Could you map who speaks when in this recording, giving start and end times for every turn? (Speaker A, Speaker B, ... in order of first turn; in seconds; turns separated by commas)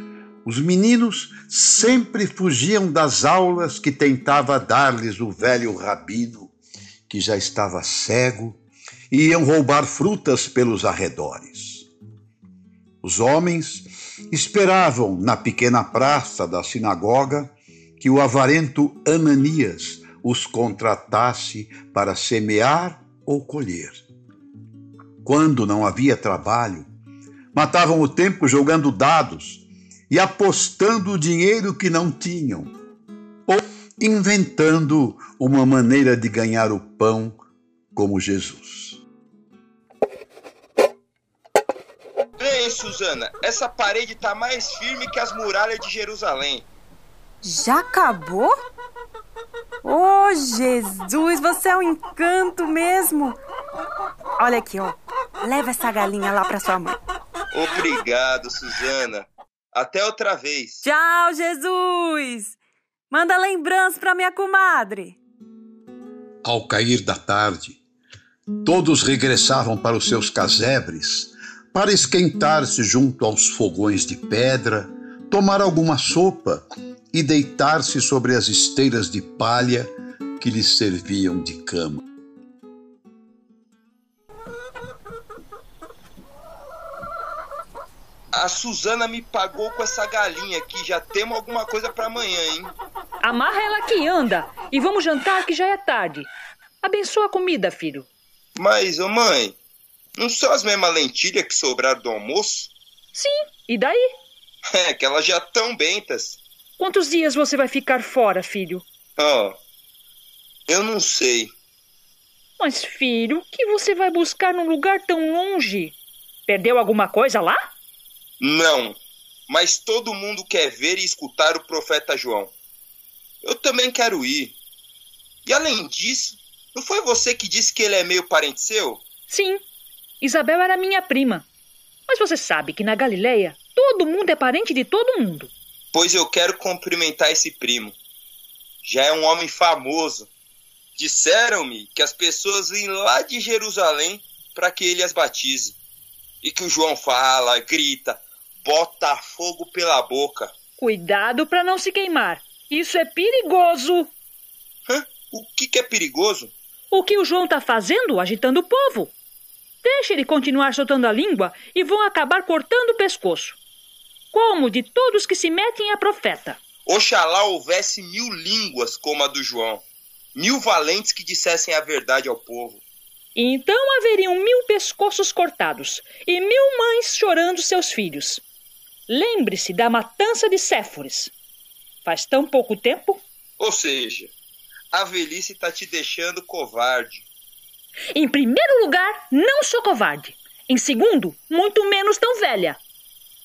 Speaker A: 0.5-6.5, Speaker A: 7.1-8.6, Speaker A: 9.1-11.9, Speaker A: 13.0-24.1, Speaker A: 25.2-26.9, Speaker A: 27.5-32.7, Speaker A: 33.5-37.4, Speaker A: 38.0-39.0, Speaker B: 42.4-46.7, Speaker C: 47.4-48.5, Speaker C: 49.8-53.4, Speaker C: 54.4-57.0, Speaker B: 57.5-60.9, Speaker C: 60.8-62.6, Speaker C: 63.1-65.2, Speaker A: 66.4-67.8, Speaker A: 68.6-82.0, Speaker B: 88.3-92.8, Speaker D: 93.2-96.3, Speaker D: 96.8-98.1, Speaker B: 98.6-99.6, Speaker B: 100.2-102.7, Speaker D: 103.1-104.0, Speaker B: 104.7-106.4, Speaker D: 106.8-108.8, Speaker B: 109.2-109.6, Speaker B: 110.7-111.5, Speaker D: 112.6-117.6, Speaker B: 118.4-122.5, Speaker B: 123.4-124.6, Speaker B: 125.5-129.0, Speaker D: 129.3-129.6, Speaker D: 130.2-131.5, Speaker D: 132.1-135.5, Speaker B: 135.9-138.0, Speaker B: 138.8-140.3, Speaker B: 141.0-145.8, Speaker B: 146.4-150.5, Speaker D: 150.8-154.1, Speaker B: 154.9-156.5, Speaker D: 156.9-159.1, Speaker D: 159.8-163.6, Speaker D: 164.3-166.6, Speaker B: 166.9-169.8, Speaker B: 170.3-172.8, Speaker D: 173.3-178.4, Speaker D: 179.1-181.3, Speaker D: 182.1-183.2, Speaker B: 183.6-184.3, Speaker B: 184.9-187.3, Speaker D: 188.1-192.8